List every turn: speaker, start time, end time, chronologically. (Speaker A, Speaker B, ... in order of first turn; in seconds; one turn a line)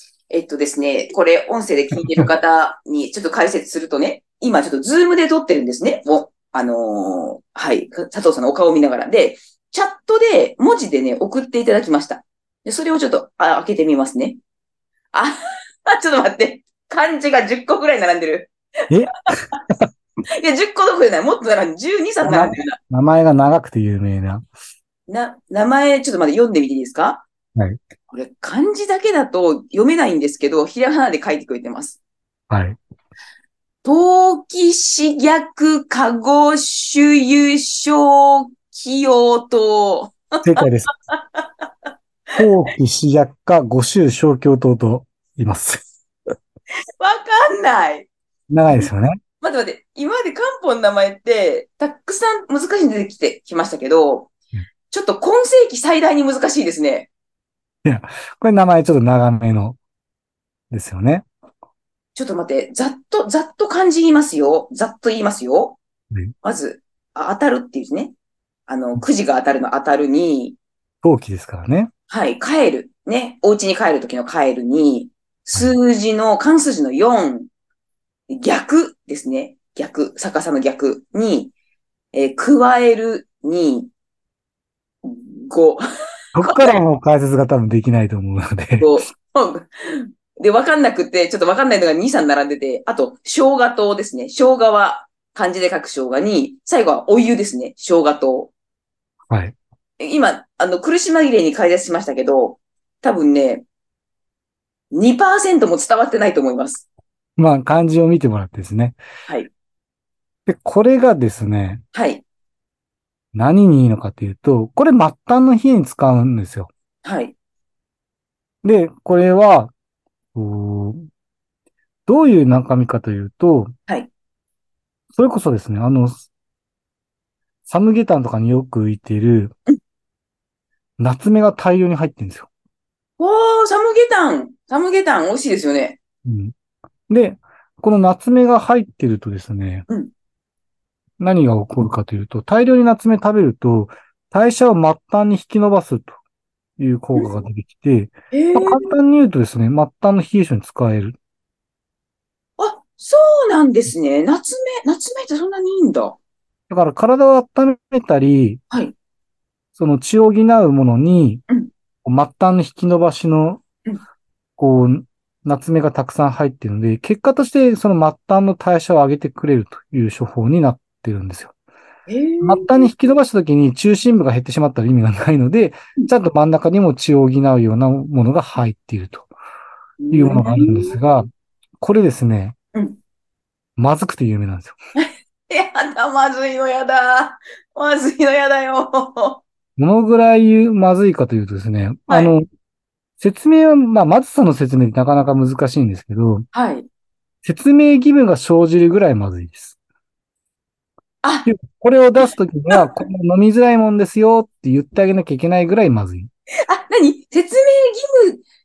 Speaker A: 0.3-14.4
Speaker A: 15.1-18.5
Speaker B: 18.9-19.3
Speaker A: 20.4-22.8
Speaker B: 22.2-24.4
Speaker A: 25.1-27.2
Speaker A: 28.1-32.0
Speaker B: 32.5-32.8
Speaker A: 33.8-41.7
Speaker B: 40.4-40.9
Speaker B: 42.4-45.8
Speaker A: 47.0-48.1
Speaker B: 48.5-49.2
Speaker A: 49.4-54.3
Speaker A: 54.9-57.1
Speaker B: 57.8-59.8
Speaker B: 60.7-61.3
Speaker A: 62.1-65.8
Speaker A: 66.4-68.1
Speaker A: 68.7-70.6
Speaker B: 71.0-71.9
Speaker A: 72.1-77.5
Speaker A: 78.3-81.5
Speaker A: 82.1-83.9
Speaker A: 85.0-85.8
Speaker B: 86.3-89.0
Speaker A: 86.4-86.8
Speaker A: 88.8-98.5
Speaker B: 99.3-99.5
Speaker A: 100.0-103.7
Speaker A: 104.9-106.8
Speaker B: 107.4-109.0
Speaker B: 110.5-111.8
Speaker A: 111.9-112.2
Speaker B: 113.3-116.7
Speaker A: 117.0-117.3
Speaker B: 118.6-119.7
Speaker B: 120.3-121.0
Speaker B: 122.1-123.7
Speaker B: 125.2-126.3
Speaker B: 127.7-129.5
Speaker B: 131.0-132.5
Speaker A: 133.2-136.0
Speaker B: 136.2-136.5
Speaker B: 137.1-139.8
Speaker B: 141.2-146.2
Speaker B: 146.8-151.2
Speaker A: 148.3-148.9
Speaker A: 152.6-156.2
Speaker B: 156.7-158.6
Speaker B: 159.7-161.4
Speaker B: 162.0-163.6
Speaker B: 164.6-171.5
Speaker A: 172.1-172.9
Speaker B: 172.4-179.3
Speaker A: 180.0-181.0
Speaker B: 180.1-181.3
Speaker B: 181.8-182.5
Speaker B: 183.8-184.8
Speaker A: 184.9-189.4
Speaker B: 189.8-192.4
Speaker A: 192.1-192.3
Speaker B: 193.2-196.4
Speaker A: 196.5-196.9
Speaker B: 197.4-199.8
Speaker A: 201.2-201.5
Speaker B: 201.4-206.3
Speaker A: 206.7-208.4